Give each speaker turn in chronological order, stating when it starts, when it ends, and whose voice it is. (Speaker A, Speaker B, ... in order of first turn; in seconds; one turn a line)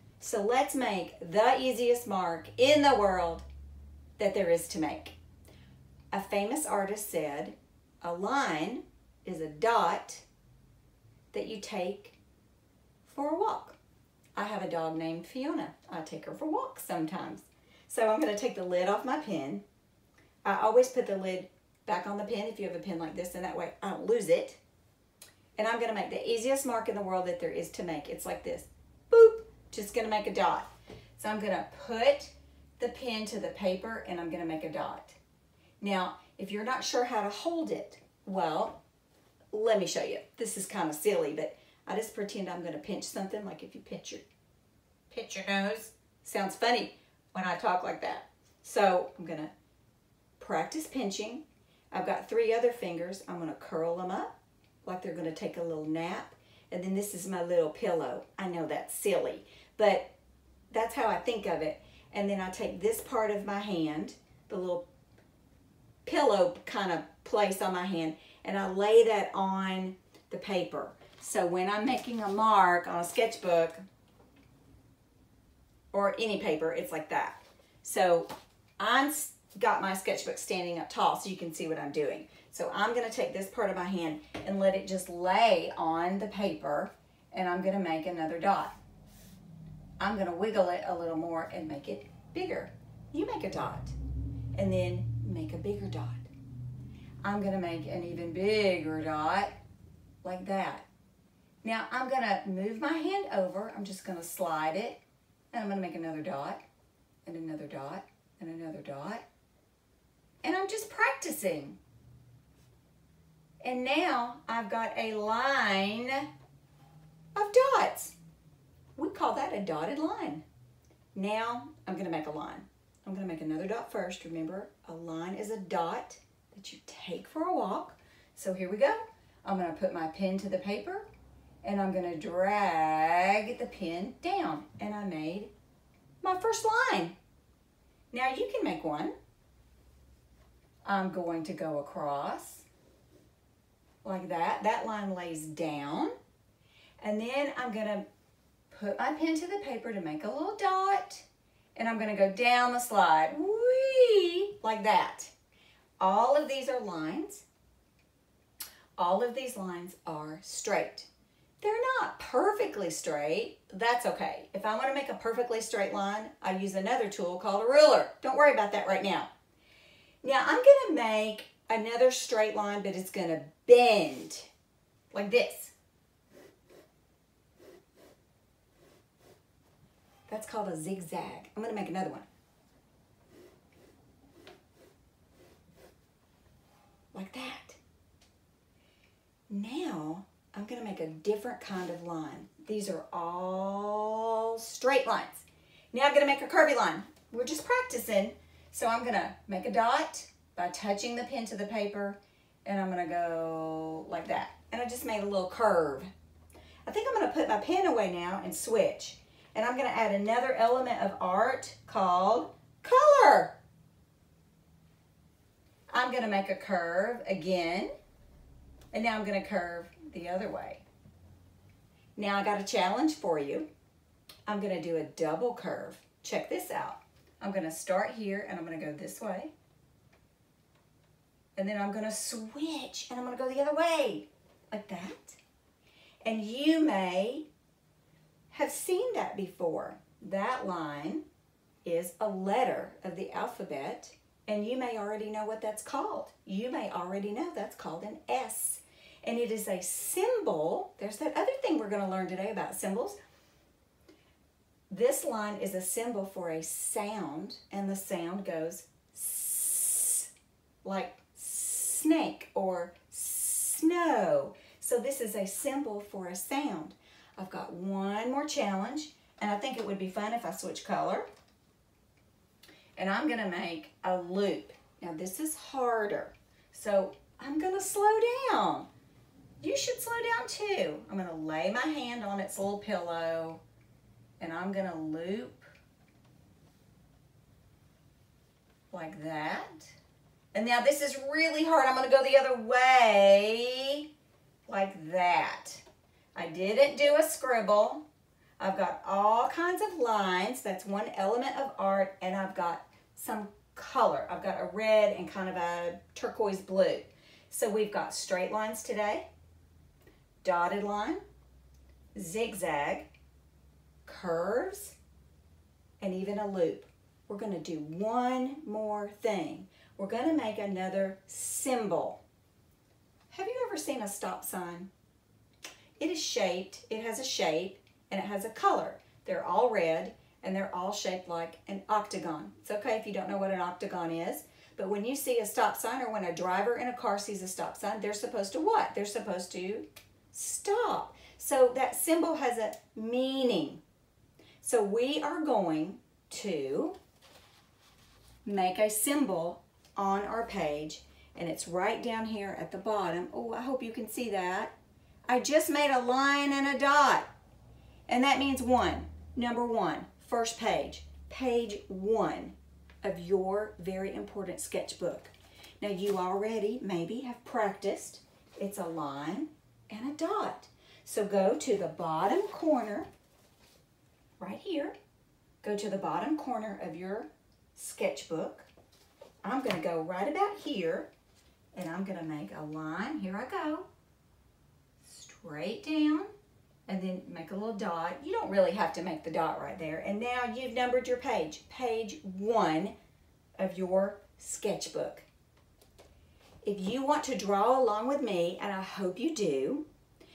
Speaker A: 0.2-3.5
Speaker A: 4.2-5.1
Speaker A: 6.1-10.2
Speaker A: 11.3-12.2
Speaker A: 13.1-13.8
Speaker A: 14.3-19.6
Speaker A: 20.4-24.6
Speaker A: 25.6-35.2
Speaker A: 35.8-38.8
Speaker A: 39.5-44.2
Speaker A: 45.1-49.5
Speaker A: 50.4-60.1
Speaker A: 60.7-64.8
Speaker A: 66.0-73.8
Speaker A: 75.9-88.8
Speaker A: 90.0-94.0
Speaker A: 94.5-96.3
Speaker A: 97.2-99.5
Speaker A: 100.2-100.8
Speaker A: 101.6-105.0
Speaker A: 105.5-106.6
Speaker A: 107.2-109.2
Speaker A: 110.4-111.8
Speaker A: 113.6-116.3
Speaker A: 117.3-118.1
Speaker A: 119.0-120.4
Speaker A: 121.1-131.1
Speaker A: 131.6-135.5
Speaker A: 136.2-137.1
Speaker A: 138.1-139.1
Speaker A: 140.8-142.7
Speaker A: 144.0-146.1
Speaker A: 147.0-148.0
Speaker A: 148.7-151.2
Speaker A: 151.8-155.3
Speaker A: 156.0-157.4
Speaker A: 159.0-161.1
Speaker A: 161.6-169.3
Speaker A: 170.2-174.5
Speaker A: 175.1-175.7
Speaker A: 180.3-182.3
Speaker A: 187.1-187.8
Speaker A: 189.5-206.1
Speaker A: 206.8-213.6
Speaker A: 215.9-217.9
Speaker A: 218.9-220.8
Speaker A: 222.2-223.7
Speaker A: 224.5-229.5
Speaker A: 231.6-235.4
Speaker A: 236.2-237.5
Speaker A: 238.5-241.2
Speaker A: 241.8-253.2
Speaker A: 254.9-260.3
Speaker A: 260.8-271.2
Speaker A: 273.0-278.9
Speaker A: 279.6-283.6
Speaker A: 284.4-285.7
Speaker A: 288.9-289.9
Speaker A: 290.5-294.1
Speaker A: 294.7-298.0
Speaker A: 298.6-309.3
Speaker A: 310.4-311.2
Speaker A: 312.1-313.1
Speaker A: 314.1-314.9
Speaker A: 316.0-322.2
Speaker A: 323.3-324.9
Speaker A: 326.0-343.8
Speaker A: 344.6-347.0
Speaker A: 348.4-354.7
Speaker A: 355.3-357.3
Speaker A: 358.1-373.1
Speaker A: 374.4-374.9
Speaker A: 375.6-378.7
Speaker A: 379.4-381.1
Speaker A: 381.7-383.9
Speaker A: 385.0-386.3
Speaker A: 386.9-392.9
Speaker A: 393.6-395.2
Speaker A: 396.6-399.9